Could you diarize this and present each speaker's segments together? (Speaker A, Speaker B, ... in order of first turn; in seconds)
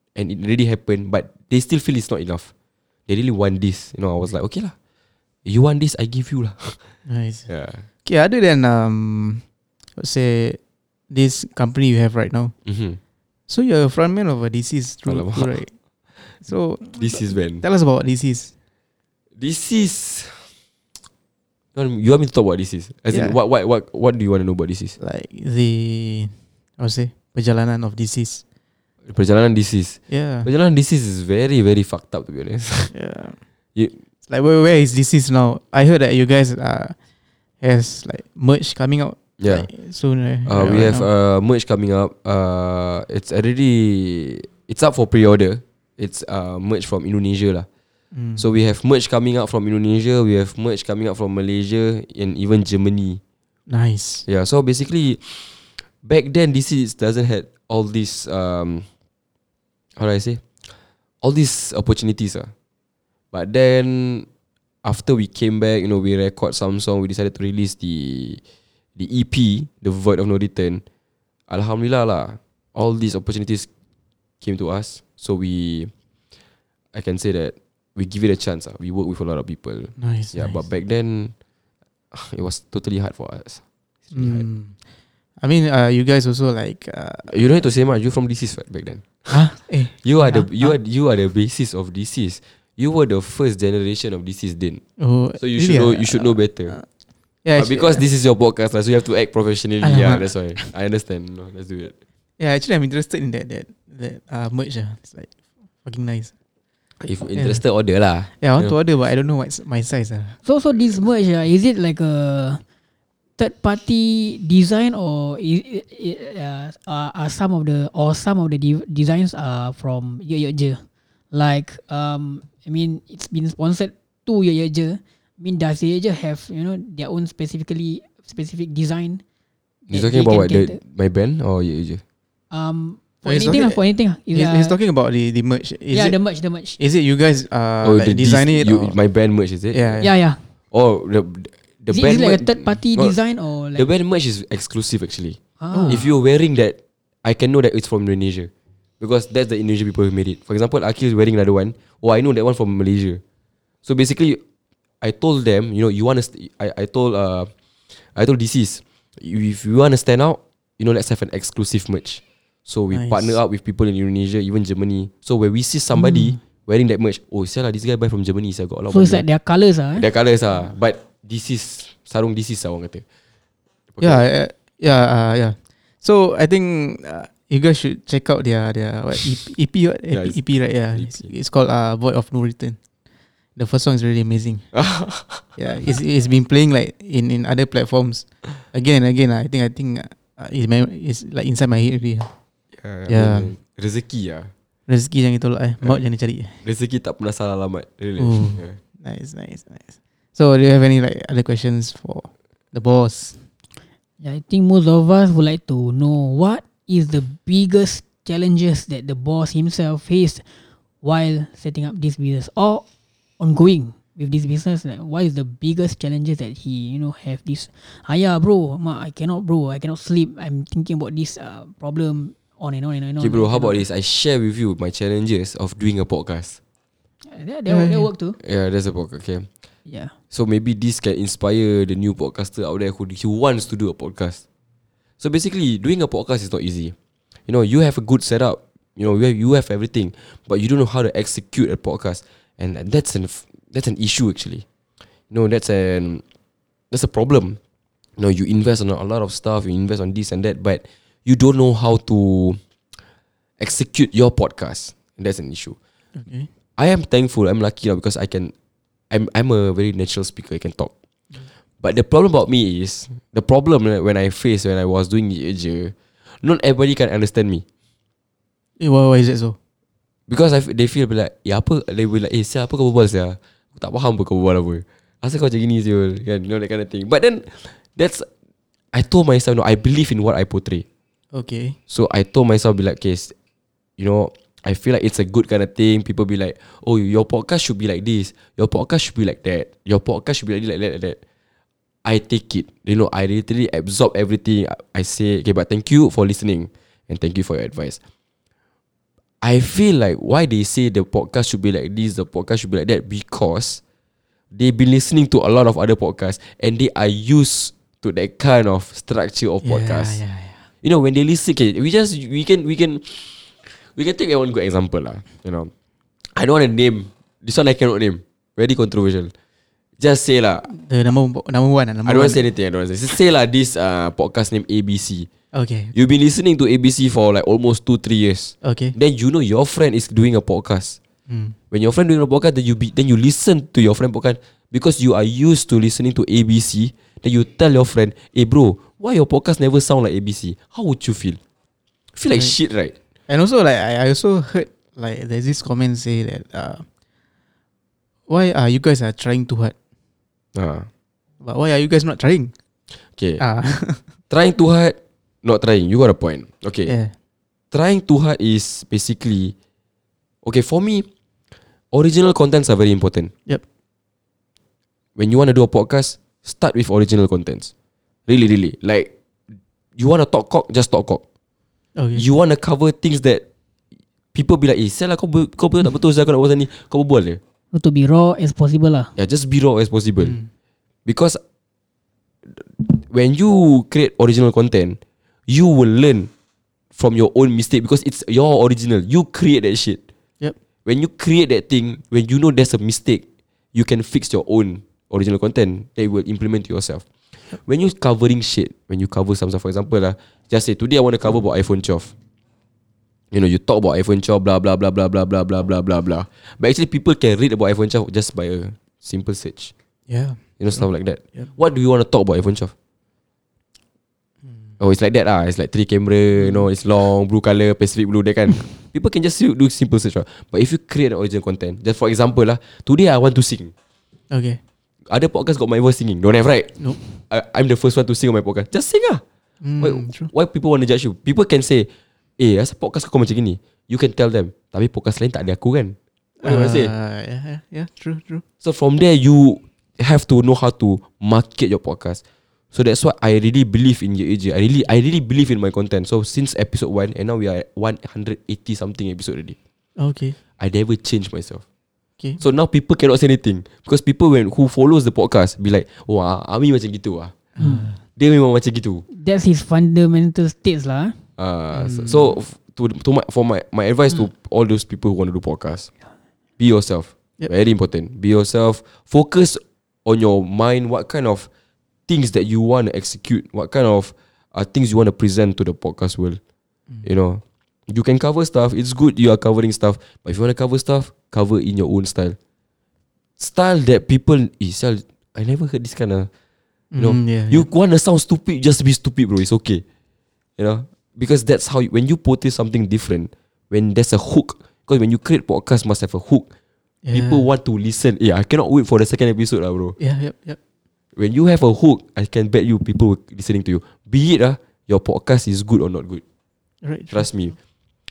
Speaker A: 0.1-2.5, 3.1-4.7, 5.4-6.8, 7.5-7.8, 12.6-13.0, 15.1-15.6, 16.9-17.6, 19.4-20.5, 21.7-25.0, 29.1-32.9, 39.4-39.7, 40.5-47.7, 48.4-53.2, 54.3-58.9, 60.0-60.4, 61.2-62.5, 63.3-64.3, 64.8-68.4, 69.0-70.8, 71.5-73.7, 74.4-75.9, 76.9-81.3, 82.1-84.4, 87.3-94.8, 95.4-96.8, 97.5-101.9, 107.0-108.7, 129.9-132.0, 137.8-140.0, 140.7-143.2, 143.8-153.2, 153.8-154.4, 155.0-157.5, 158.1-169.2, 169.9-173.0, 173.9-174.2, 180.1-180.4, 180.9-181.3, 184.7-185.5, 192.7-194.5, 196.6-198.8, 223.2-226.6, 228.4-229.5, 230.3-234.4, 235.2-236.9, 237.5-244.6, 245.3-246.2, 246.9-247.6, 248.2-252.6, 253.6-255.8, 256.8-258.5, 259.1-260.9, 261.8-267.6, 270.3-278.3, 278.9-280.8, 281.9-283.3, 284.0-291.2, 292.0-298.0, 299.4-303.8, 304.5-310.2, 310.8-315.7, 316.3-319.3, 320.0-320.7, 322.0-325.3, 325.9-331.0, 331.7-341.4, 342.1-342.9, 350.5-350.9, 353.1-353.4, 354.3-356.9, 357.7-359.5, 360.4-361.1, 361.9-363.3, 365.2-367.7, 368.3-369.1, 370.0-371.2, 372.1-373.4, 374.3-377.4, 379.1-380.4, 381.1-381.4, 382.6-386.3, 386.9-390.0, 390.8-402.1, 403.3-409.7, 410.6-412.7, 414.8-423.7, 425.1-429.2, 429.8-436.9, 438.6-442.2, 442.7-449.6, 450.6-451.6, 452.4-457.3, 458.1-459.1, 461.4-465.9, 466.6-471.5, 472.1-476.4, 477.0-482.4, 483.4-486.3, 487.0-489.8, 490.6-496.4, 497.1-499.9, 501.1-506.2, 507.1-507.5
Speaker B: 7.0-7.5, 8.0-9.4, 10.0-10.6, 11.1-12.5, 13.5-15.7, 16.4-18.5, 23.1-23.4, 25.0-28.4, 30.1-30.5, 32.9-33.4, 34.3-37.0, 37.6-41.1, 48.1-48.4, 53.7-54.2, 80.0-80.6, 84.1-84.8, 85.4-87.3, 89.3-90.7, 95.0-96.8, 97.4-98.0, 99.8-100.7, 102.4-105.3, 105.8-106.3, 107.3-107.6, 108.4-110.4, 133.2-136.2, 136.8-139.0, 139.7-140.1, 145.7-146.1, 162.9-163.4, 174.0-182.8, 183.6-184.7, 185.6-192.3, 193.1-193.5, 194.9-196.6, 198.2-203.4, 227.7-228.1, 256.1-256.5, 268.8-269.6, 281.3-281.8, 309.6-310.7, 320.6-322.4, 325.5-325.9, 328.6-328.9, 331.3-331.6, 343.3-346.8, 348.3-349.7, 351.4-352.5, 353.4-354.0, 356.9-357.1, 371.9-372.2, 380.2-380.5, 410.1-410.9, 416.4-416.7, 424.3-424.6, 429.6-430.3, 436.4-438.4, 450.0-450.4, 457.6-458.0, 461.7-462.4, 486.9-487.7, 497.0-497.4, 500.0-500.6, 506.8-507.3
Speaker C: 110.4-112.6, 113.4-129.2, 129.9-130.8, 132.5-134.8, 135.9-136.8, 140.0-140.4, 141.9-143.8, 145.6-146.1, 168.9-170.1, 204.2-210.4, 211.0-212.8, 213.4-223.8, 227.2-228.3, 229.9-230.1, 377.7-379.1, 457.6-457.9, 459.1-461.2